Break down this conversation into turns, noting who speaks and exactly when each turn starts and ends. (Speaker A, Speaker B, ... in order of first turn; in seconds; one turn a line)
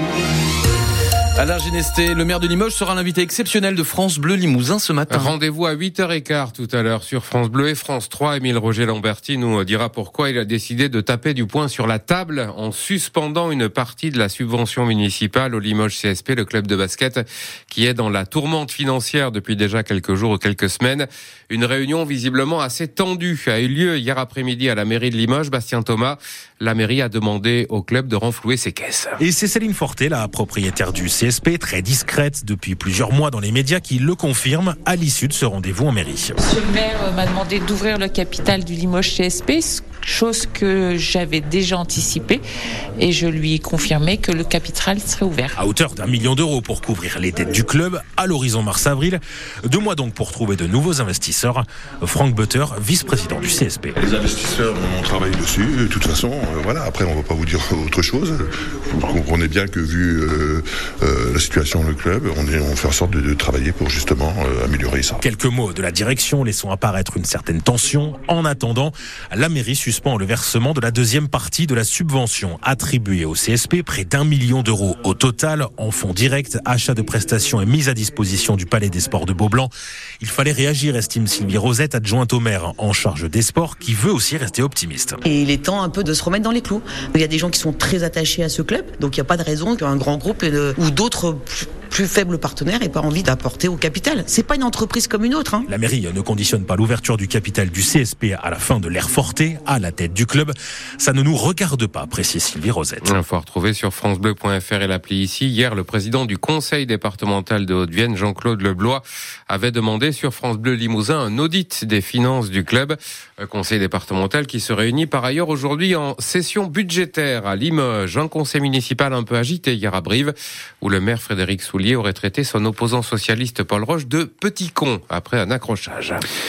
Speaker A: 1.4-5.3
Speaker B: 5.1-29.2
Speaker C: 29.2-36.4
Speaker D: 36.4-42.4
Speaker D: 43.0-45.6
Speaker C: 45.5-53.9
Speaker E: 54.0-65.2
Speaker C: 65.2-85.2
Speaker F: 85.3-95.6
Speaker C: 95.7-103.2
Speaker B: 103.0-126.2